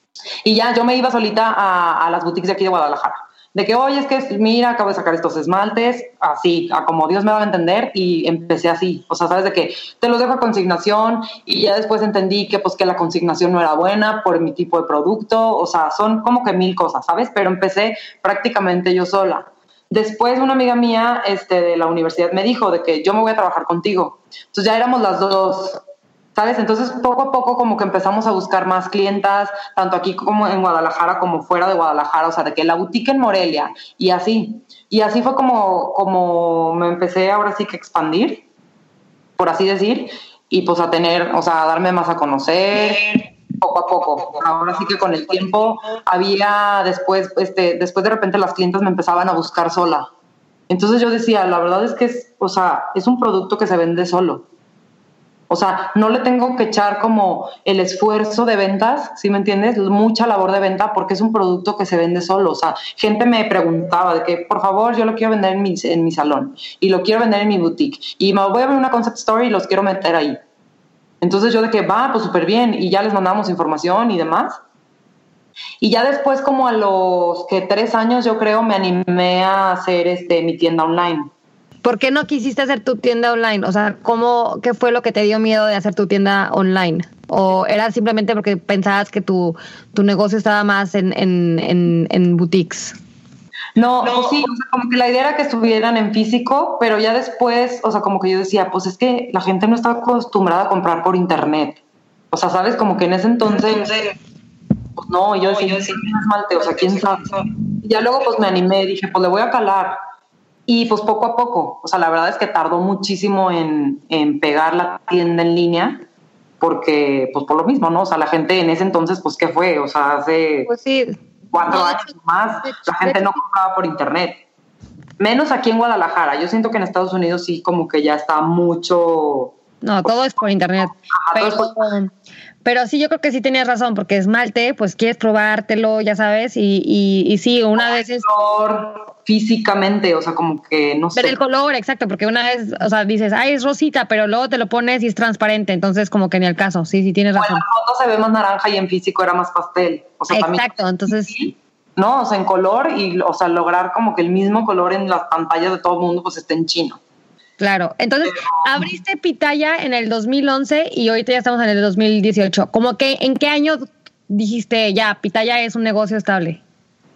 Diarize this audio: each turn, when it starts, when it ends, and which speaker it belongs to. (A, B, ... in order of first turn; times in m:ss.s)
0:00.4-0:25.8 A
0:26.4-0:38.4 A
0:39.4-0:50.1 A
0:50.7-0:54.4 A
0:55.5-1:10.4 A
1:11.2-1:14.6 A
1:15.8-1:21.3 A
1:21.8-1:33.0 B
1:33.8-1:41.8 A
1:42.3-1:44.1 A
1:45.0-1:50.0 A
1:50.7-1:56.0 A
1:56.6-2:00.7 A
2:00.7-2:01.2 B
2:01.5-2:04.4 A
2:01.7-2:02.1 B
2:02.6-2:03.4 B
2:05.2-2:09.5 A
2:09.8-2:12.1 B
2:11.1-2:11.7 A
2:12.6-2:18.3 B
2:17.8-2:21.4 A
2:21.2-2:27.6 B
2:27.4-2:37.0 A
2:30.3-2:31.4 B
2:37.6-2:46.6 B
2:38.3-2:38.9 A